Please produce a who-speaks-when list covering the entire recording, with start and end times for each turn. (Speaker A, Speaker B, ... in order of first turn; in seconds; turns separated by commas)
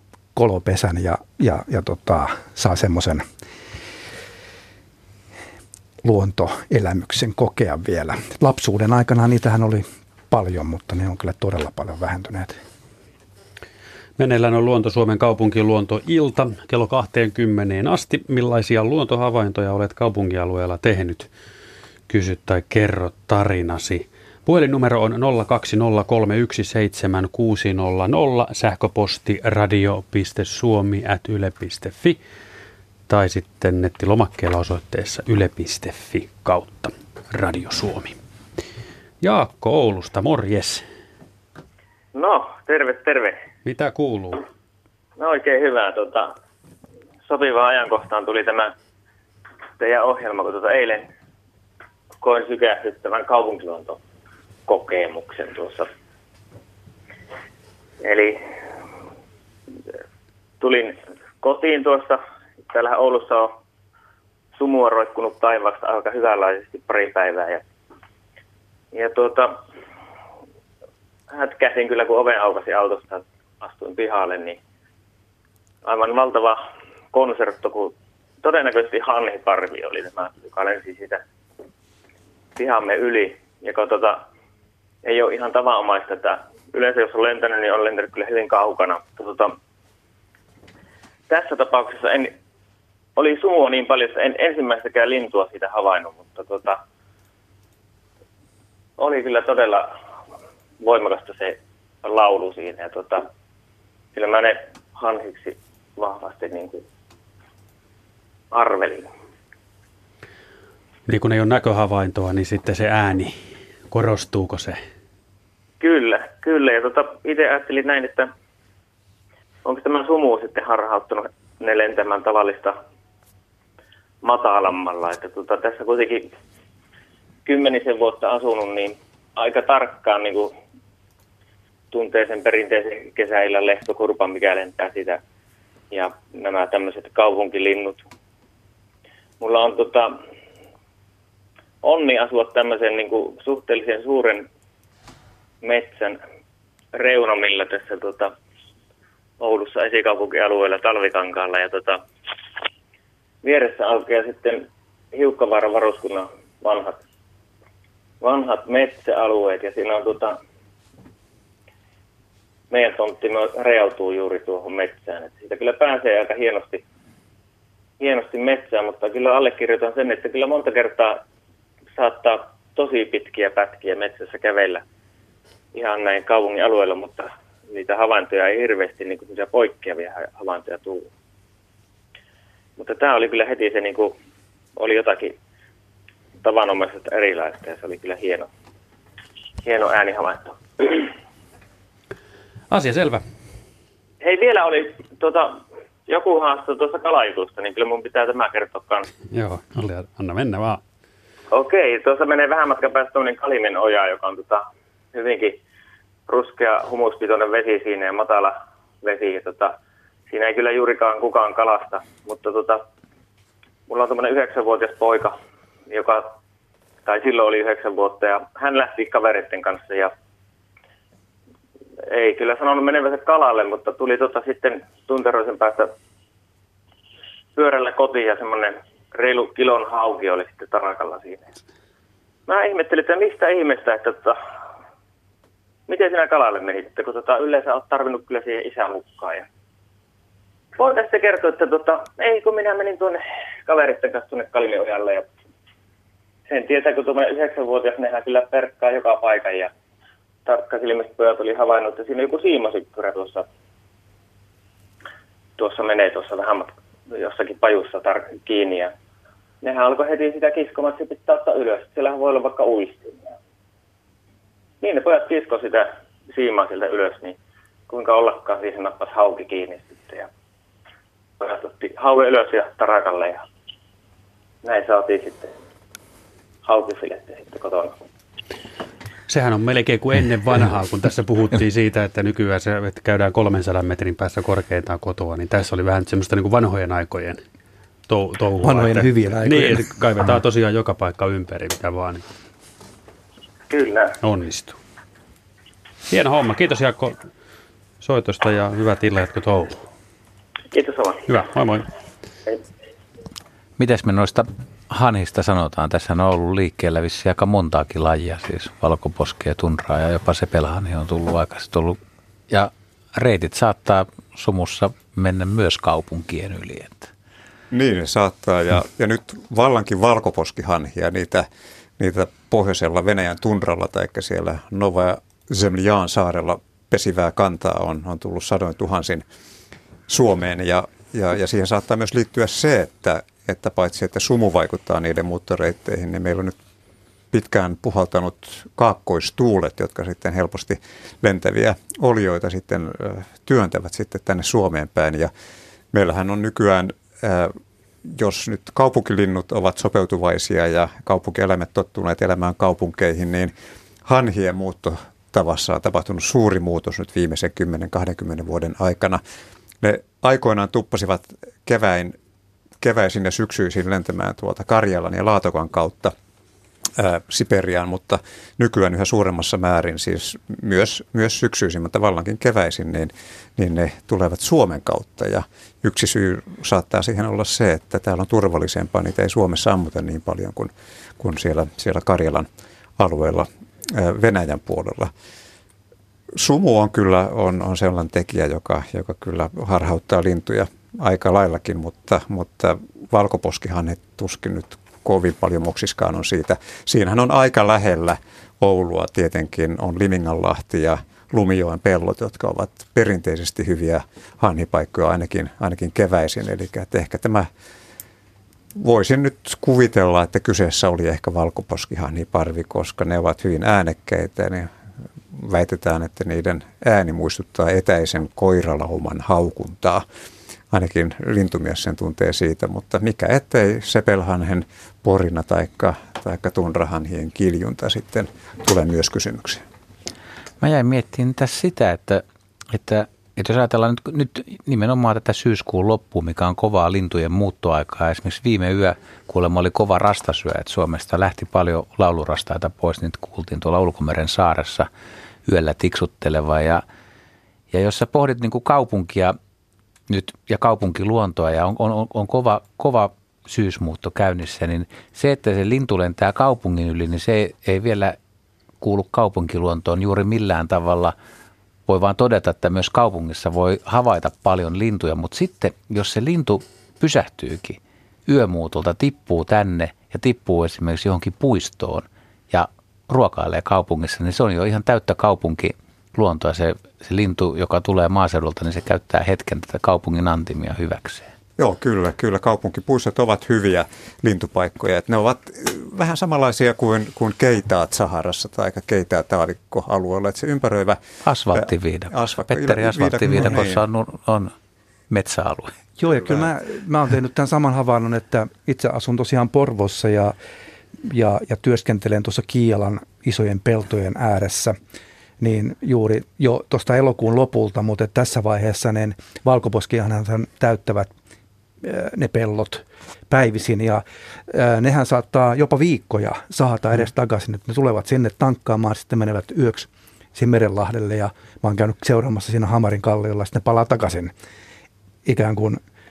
Speaker A: 0.3-3.2, Speaker A: 6.0-12.6, Speaker B: 14.2-21.3, Speaker B: 22.1-32.2, Speaker B: 33.1-38.2, Speaker B: 39.2-40.9, Speaker C: 42.1-43.4, Speaker B: 43.6-44.4, Speaker C: 45.2-46.3, Speaker C: 47.3-48.7, Speaker C: 49.8-51.1, Speaker C: 52.2-54.0, Speaker C: 54.7-55.9, Speaker C: 58.0-58.4, Speaker C: 60.6-63.6, Speaker C: 64.6-67.6, Speaker C: 68.9-69.6, Speaker C: 71.3-74.6, Speaker C: 75.8-76.6, Speaker C: 77.1-81.2, Speaker C: 82.6-84.3, Speaker C: 85.0-89.6, Speaker C: 91.3-92.3, Speaker C: 93.2-96.8, Speaker C: 99.0-99.9, Speaker C: 100.8-103.3, Speaker C: 104.1-106.8, Speaker C: 108.5-109.1, Speaker B: 111.1-113.4, Speaker B: 113.9-114.8, Speaker C: 115.8-118.3, Speaker C: 119.6-122.8, Speaker C: 124.2-126.3, Speaker C: 127.5-130.5, Speaker C: 131.9-135.2, Speaker C: 135.9-138.1, Speaker C: 139.4-140.1, Speaker C: 141.8-144.5, Speaker C: 145.6-146.2, Speaker C: 146.9-148.3, Speaker C: 149.4-152.0, Speaker C: 153.4-157.0, Speaker C: 158.2-160.4, Speaker C: 162.7-166.8, Speaker C: 168.0-171.2, Speaker C: 171.9-174.8, Speaker C: 175.7-181.1, Speaker C: 182.8-184.1, Speaker C: 184.8-185.4, Speaker C: 186.4-188.5, Speaker C: 189.6-191.1, Speaker B: 192.7-193.2, Speaker C: 194.2-199.1, Speaker B: 199.3-200.8, Speaker C: 201.5-205.6, Speaker C: 206.3-209.7, Speaker C: 210.3-212.9, Speaker C: 213.9-215.3, Speaker C: 215.9-216.3, Speaker C: 217.1-220.1, Speaker C: 222.1-225.9, Speaker C: 227.6-231.5, Speaker C: 232.5-234.4, Speaker C: 235.9-239.5, Speaker C: 240.8-245.3, Speaker C: 246.5-249.7, Speaker C: 250.5-253.5, Speaker C: 255.6-258.9, Speaker C: 259.6-263.3, Speaker C: 264.8-267.4, Speaker C: 267.9-270.3, Speaker C: 271.4-273.4, Speaker C: 274.6-275.5, Speaker C: 276.6-278.0, Speaker B: 279.3-287.4, Speaker B: 288.1-292.2, Speaker A: 288.6-289.9, Speaker C: 293.7-294.1, Speaker B: 294.2-294.8, Speaker B: 296.1-297.2, Speaker B: 298.0-299.8, Speaker C: 300.7-301.2, Speaker B: 301.3-301.9, Speaker D: 303.8-312.0, Speaker D: 312.5-317.1, Speaker E: 317.7-321.5, Speaker E: 322.0-329.2, Speaker E: 330.1-336.6, Speaker E: 337.3-345.3, Speaker E: 345.9-347.5, Speaker E: 348.1-353.5, Speaker E: 354.1-359.2, Speaker E: 359.8-362.1, Speaker E: 362.8-366.1, Speaker E: 367.0-385.1, Speaker E: 386.4-407.5, Speaker E: 408.8-414.7, Speaker E: 415.3-420.0, Speaker E: 420.7-429.6, Speaker D: 430.6-444.9, Speaker D: 445.5-446.8, Speaker D: 447.7-449.4, Speaker D: 450.1-458.2, Speaker D: 458.8-461.1, Speaker D: 461.9-481.3, Speaker E: 481.6-491.0, Speaker D: 491.2-494.6, Speaker E: 491.6-493.8, Speaker D: 495.1-495.7, Speaker A: 496.0-500.4, Speaker A: 501.0-504.8, Speaker A: 505.4-511.1, Speaker A: 511.8-524.3, Speaker A: 525.2-525.8